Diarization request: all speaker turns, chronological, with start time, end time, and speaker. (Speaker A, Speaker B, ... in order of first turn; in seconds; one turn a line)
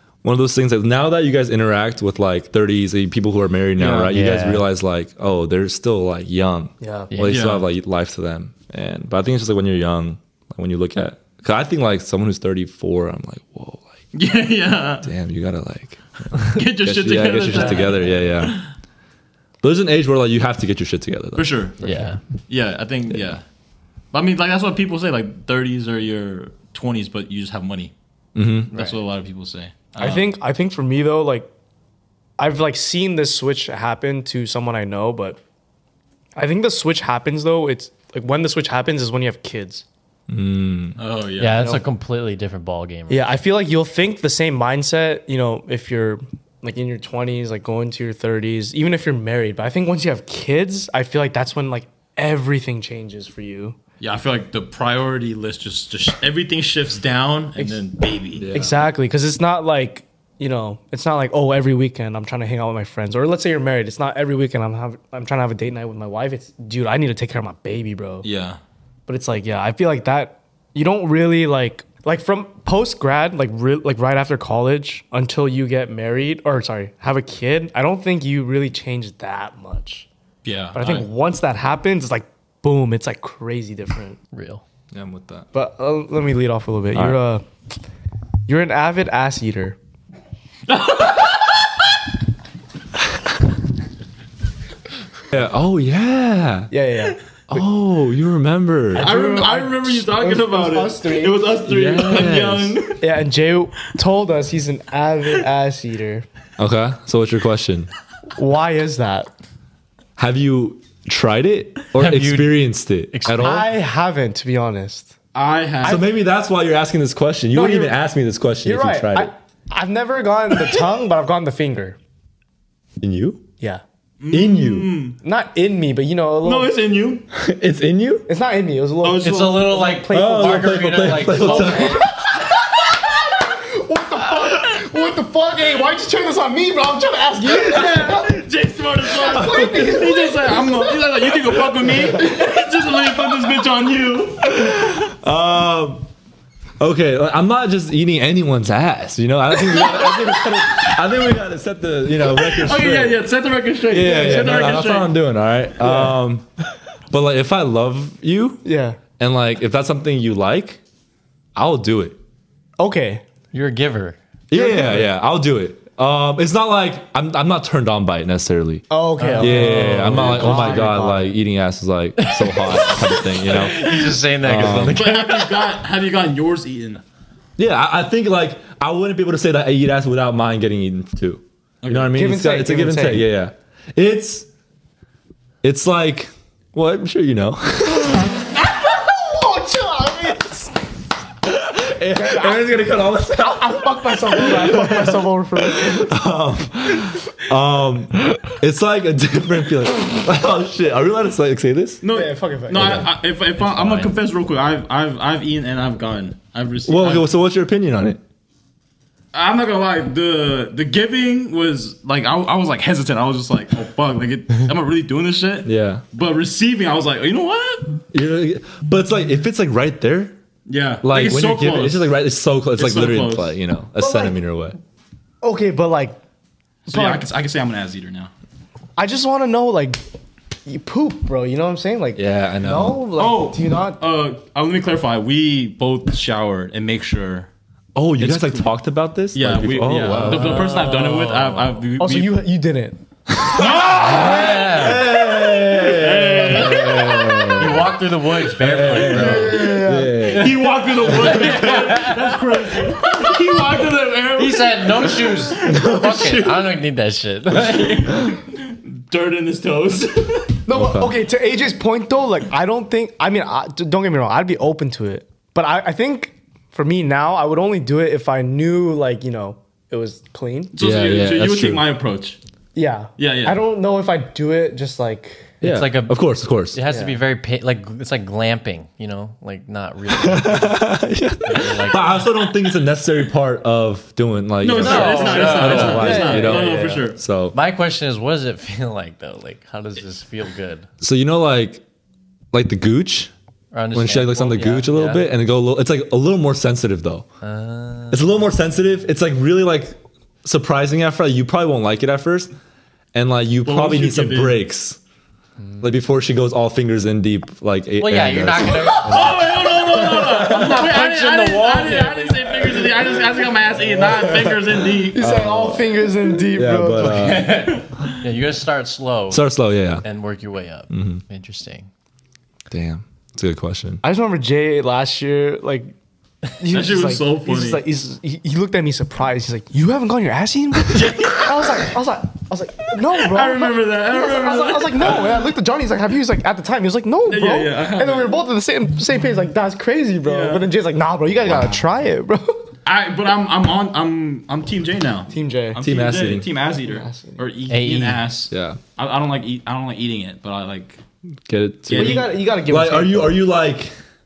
Speaker A: 0.2-14.0
Speaker B: 3.8-4.1
Speaker C: 4.1-4.6
Speaker D: 6.8-7.1
Speaker C: 7.1-7.4
Speaker B: 7.3-7.7
Speaker B: 14.1-15.1
Speaker A: 15.0-18.6
Speaker B: 16.5-18.7
Speaker C: 17.4-18.1
Speaker A: 19.6-21.6
Speaker B: 21.4-21.8
Speaker C: 21.8-22.2
Speaker B: 22.5-23.4
Speaker B: 24.1-27.9
Speaker A: 28.3-28.7
Speaker B: 28.7-30.3
Speaker D: 30.0-31.5
Speaker D: 32.4-35.4
Speaker D: 36.4-39.9
Speaker A: 40.3-41.0
Speaker B: 41.0-41.8
Speaker C: 41.4-43.2
Speaker D: 43.1-53.8
Speaker B: 54.0-58.5
Speaker A: 58.3-58.8
Speaker D: 58.5-68.2
Speaker B: 68.2-68.6
Speaker D: 69.1-80.1
Speaker B: 80.4-81.1
Speaker D: 80.7-84.2
Speaker C: 84.3-84.6
Speaker A: 84.9-85.5
Speaker D: 85.5-87.4
Speaker A: 86.9-87.2
Speaker D: 88.5-89.8
Speaker B: 90.7-91.8
Speaker A: 95.3-96.7
Speaker D: 96.7-97.2
Speaker A: 97.5-99.1
Speaker D: 98.9-101.5
Speaker B: 98.9-103.0
Speaker A: 101.7-102.8
Speaker D: 103.0-106.2
Speaker A: 106.6-107.9
Speaker D: 108.3-109.3
Speaker A: 110.2-113.7
Speaker C: 111.9-112.6
Speaker C: 113.1-113.6
Speaker D: 113.4-115.1
Speaker B: 115.3-116.0
Speaker A: 115.8-119.3
Speaker D: 117.5-118.0
Speaker D: 118.6-122.0
Speaker A: 123.0-123.4
Speaker B: 124.2-125.2
Speaker A: 124.3-125.0
Speaker D: 125.2-126.7
Speaker B: 126.4-127.2
Speaker A: 127.3-128.3
Speaker D: 128.3-138.4
Speaker B: 129.0-129.8
Speaker C: 129.2-132.0
Speaker A: 130.1-132.1
Speaker B: 137.4-144.9
Speaker D: 139.0-142.4
Speaker A: 139.2-140.0
Speaker A: 144.4-146.1
Speaker A: 146.8-153.2
Speaker B: 152.3-155.1
Speaker A: 153.9-156.5
Speaker D: 154.0-154.7
Speaker D: 155.8-156.2
Speaker A: 157.1-158.6
Speaker D: 158.6-159.0
Speaker A: 159.2-160.8
Speaker A: 161.5-162.2
Speaker D: 162.8-163.2
Speaker C: 163.5-164.2
Speaker A: 164.5-168.8
Speaker D: 164.5-165.1
Speaker D: 168.9-171.3
Speaker C: 169.2-170.9
Speaker A: 169.4-175.0
Speaker B: 170.3-170.7
Speaker C: 172.2-175.7
Speaker B: 174.8-177.0
Speaker A: 177.6-184.5
Speaker B: 181.8-182.1
Speaker D: 182.1-183.3
Speaker A: 185.6-188.4
Speaker D: 188.8-190.7
Speaker A: 191.4-202.0
Speaker D: 192.1-196.1
Speaker B: 202.0-207.3
Speaker D: 202.1-203.1
Speaker C: 203.6-204.2
Speaker A: 206.8-208.2
Speaker B: 209.3-218.0
Speaker A: 215.6-216.0
Speaker A: 218.1-220.3
Speaker B: 220.7-222.1
Speaker A: 221.0-224.8
Speaker B: 222.8-223.5
Speaker D: 224.0-224.3
Speaker D: 225.4-226.2
Speaker B: 226.8-228.3
Speaker D: 226.9-227.3
Speaker D: 229.0-230.0
Speaker D: 230.7-234.0
Speaker A: 232.2-233.0
Speaker B: 233.2-237.5
Speaker A: 237.9-240.7
Speaker B: 238.2-238.7
Speaker B: 239.3-242.4
Speaker C: 240.1-241.8
Speaker D: 242.0-243.0
Speaker A: 243.3-247.9
Speaker B: 243.6-244.4
Speaker C: 243.7-245.1
Speaker B: 245.6-247.2
Speaker C: 247.4-249.7
Speaker A: 248.6-252.0
Speaker D: 248.9-250.4
Speaker B: 250.2-255.8
Speaker C: 251.1-252.3
Speaker C: 254.4-258.1
Speaker A: 255.6-256.7
Speaker B: 257.6-260.5
Speaker D: 260.7-270.7
Speaker A: 260.7-261.2
Speaker B: 270.7-272.4
Speaker A: 270.8-271.9
Speaker D: 272.7-275.5
Speaker B: 273.2-273.6
Speaker A: 275.6-276.8
Speaker C: 275.6-280.9
Speaker D: 276.9-277.2
Speaker A: 280.2-287.6
Speaker C: 281.4-282.2
Speaker B: 284.6-287.2
Speaker C: 284.7-287.0
Speaker D: 285.3-287.0
Speaker C: 287.5-290.9
Speaker A: 291.0-291.8
Speaker A: 292.5-293.3
Speaker C: 293.7-295.3
Speaker A: 293.9-297.2
Speaker C: 297.4-298.2
Speaker A: 298.1-302.5
Speaker A: 303.1-305.0
Speaker B: 303.6-304.6
Speaker A: 305.8-309.4
Speaker C: 308.0-312.9
Speaker B: 309.1-315.2
Speaker A: 310.2-310.6
Speaker A: 313.8-317.6
Speaker D: 315.1-317.5
Speaker C: 317.0-319.5
Speaker B: 317.7-318.1
Speaker A: 319.3-320.0
Speaker C: 320.0-321.9
Speaker A: 320.9-321.2
Speaker A: 322.7-324.0
Speaker D: 324.0-325.9
Speaker D: 326.6-342.6
Speaker B: 326.7-327.8
Speaker B: 330.9-331.9
Speaker B: 333.1-335.4
Speaker B: 337.2-338.4
Speaker B: 340.2-340.7
Speaker B: 342.9-351.0
Speaker D: 345.3-345.8
Speaker A: 345.8-346.5
Speaker D: 346.8-347.4
Speaker C: 347.7-348.2
Speaker A: 348.5-348.8
Speaker A: 351.5-353.9
Speaker B: 351.9-352.2
Speaker D: 351.9-353.4